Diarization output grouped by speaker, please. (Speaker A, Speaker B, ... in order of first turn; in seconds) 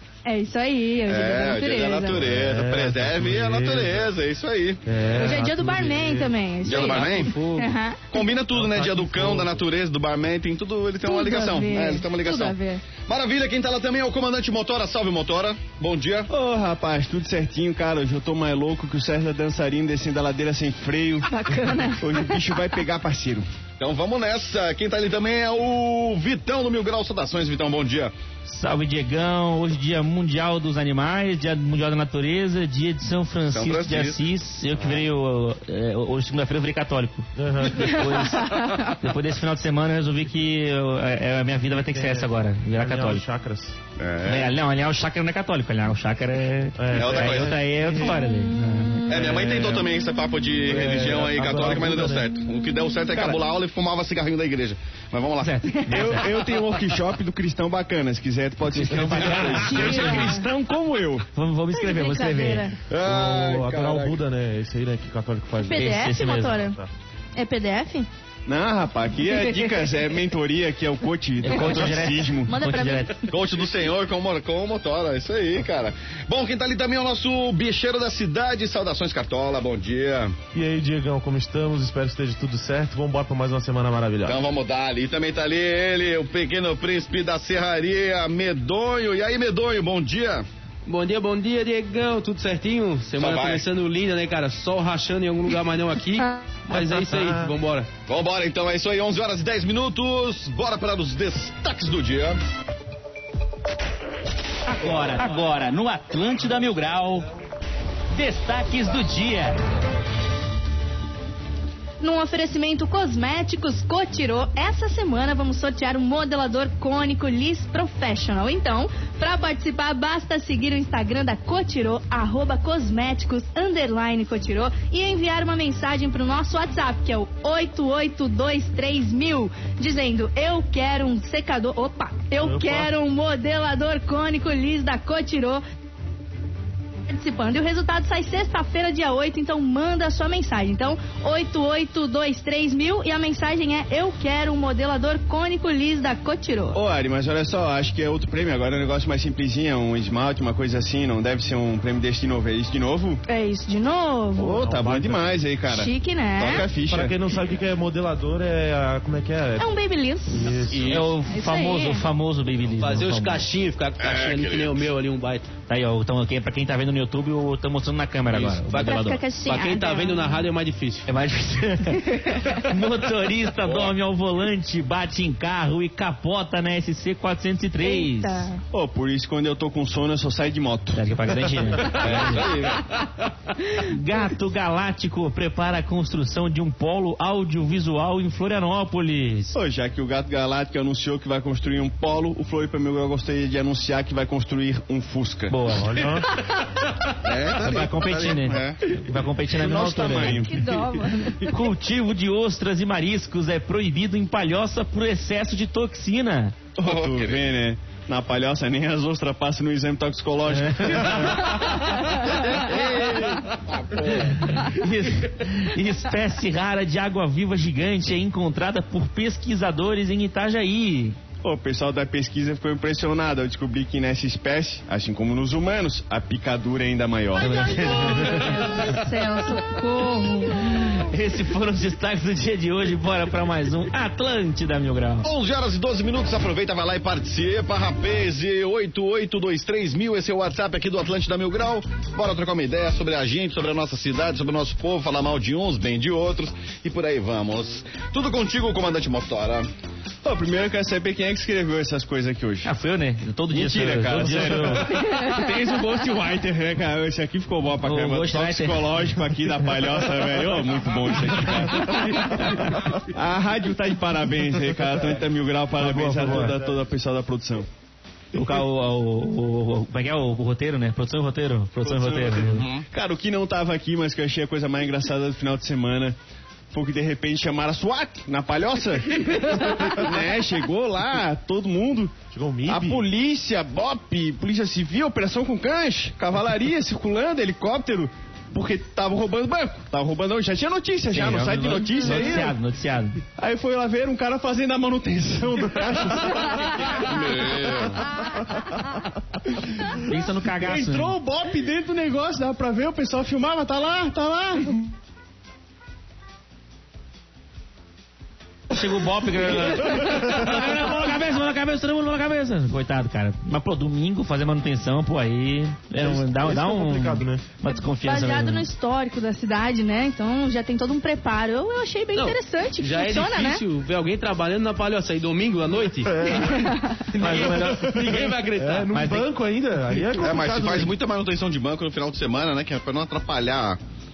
Speaker A: 0.2-2.3, 5.1-8.2, 11.0-12.8, 21.2-22.3, 38.1-38.9, 59.4-60.4, 61.7-62.8, 65.6-66.8, 67.3-68.1, 69.3-69.8, 71.7-73.4, 112.0-135.6, 137.1-146.8, 153.3-154.6, 155.6-156.7, 159.6-160.6, 161.3-162.0, 168.7-170.5, 172.0-172.6, 177.8-178.6, 200.2-201.5, 212.0-212.2, 227.4-231.0, 255.0-255.5, 317.9-323.6, 326.4-327.0
Speaker B: 1.0-4.8, 6.6-7.4, 8.1-16.3, 23.8-28.1, 33.5-34.2, 44.0-44.5, 46.9-47.6, 49.1-55.7, 62.9-64.2, 73.3-80.3, 84.2-90.5, 93.1-93.6, 98.1-102.4, 164.0-164.8, 173.6-173.9, 181.9-182.9, 197.1-198.8, 206.8-207.5, 212.3-214.5, 235.2-249.7, 253.6-254.3, 261.3-261.9, 272.6-272.9, 296.7-298.1, 330.2-333.8
Speaker C: 2.1-4.1, 4.8-6.3, 8.5-9.6, 37.4-38.0, 41.8-43.8, 46.8-48.2, 50.6-52.4, 62.9-65.9, 66.5-66.9, 80.5-84.4, 132.4-132.9, 154.6-155.4, 156.8-159.7, 160.3-160.9, 195.7-196.3, 265.8-266.8, 282.3-283.1, 292.1-292.5, 309.8-310.6, 315.9-317.4, 326.1-326.7, 327.5-330.9
Speaker D: 5.1-5.4, 6.7-7.7, 90.8-97.9, 160.7-161.1, 162.8-165.5, 168.3-168.8, 169.4-171.1, 322.1-329.0
Speaker E: 16.3-21.3, 22.0-23.4, 55.9-61.2, 68.5-72.5, 146.7-153.2, 154.4-157.1, 178.7-181.0, 189.5-196.1, 199.4-200.7, 206.8-211.7, 212.3-213.3, 221.4-227.7, 250.2-252.7, 253.5-267.7, 271.8-276.1, 276.7-292.5, 293.4-297.8, 300.5-304.9
Speaker F: 28.4-43.2, 44.2-49.9, 53.1-53.4, 55.4-56.2, 58.7-62.6, 65.7-66.6, 71.4-73.1, 104.7-107.2, 108.1-109.6, 160.8-163.5, 165.7-169.2, 171.1-178.5, 180.9-182.5, 183.8-189.6, 195.5-196.1, 197.5-200.6, 201.4-206.5, 210.5-211.5, 214.4-221.2, 227.4-228.9, 230.7-235.3, 252.6-255.1, 257.8-259.3, 262.1-262.8, 268.3-272.7, 291.1-293.2, 300.0-301.1, 308.7-318.7, 327.1-328.2, 328.9-329.3